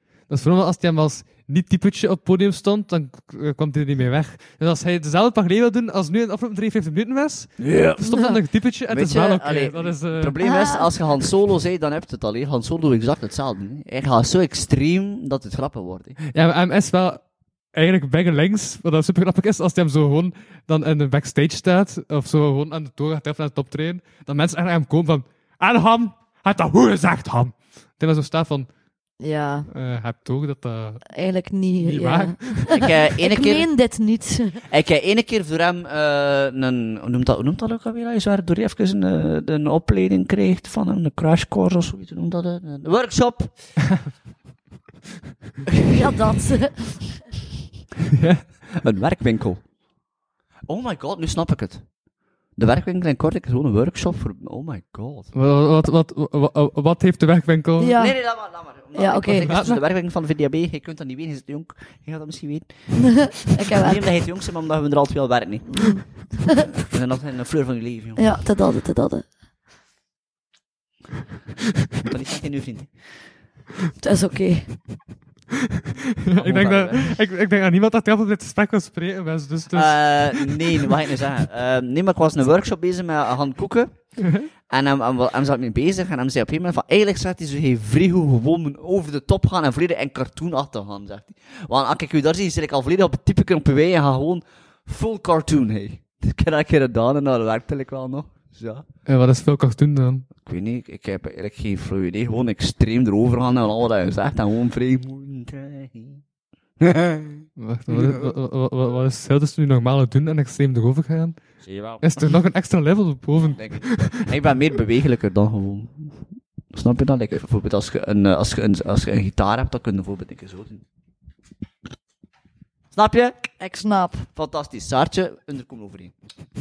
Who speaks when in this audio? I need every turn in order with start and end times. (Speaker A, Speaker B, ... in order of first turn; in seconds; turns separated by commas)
Speaker A: 0.3-10.4, Speaker B: 7.6-8.1, Speaker C: 8.0-8.3, Speaker B: 8.9-16.2, Speaker C: 10.4-10.9, Speaker A: 16.3-28.7, Speaker C: 29.2-29.7, Speaker A: 29.7-31.1, Speaker C: 31.1-34.6, Speaker A: 31.8-32.8, Speaker B: 32.7-33.7, Speaker B: 34.6-43.5, Speaker B: 45.6-46.1, Speaker C: 45.9-47.1, Speaker A: 48.1-48.7, Speaker B: 48.7-49.7, Speaker B: 50.7-51.9, Speaker B: 52.5-55.3, Speaker A: 55.3-57.9, Speaker C: 57.8-58.2, Speaker B: 57.9-68.4, Speaker C: 58.9-59.5, Speaker A: 59.4-59.8, Speaker C: 63.0-64.0, Speaker C: 65.8-66.6, Speaker C: 68.2-69.3, Speaker B: 71.9-72.9, Speaker C: 74.0-74.8, Speaker A: 76.3-80.9, Speaker B: 76.3-77.2, Speaker B: 79.7-98.8, Speaker A: 84.2-84.5, Speaker A: 99.0-100.2, Speaker B: 100.4-106.2, Speaker B: 106.8-108.3, Speaker A: 107.6-114.2, Speaker B: 111.7-112.0, Speaker B: 113.5-120.8, Speaker B: 122.9-123.5, Speaker C: 123.6-124.3, Speaker B: 124.3-126.1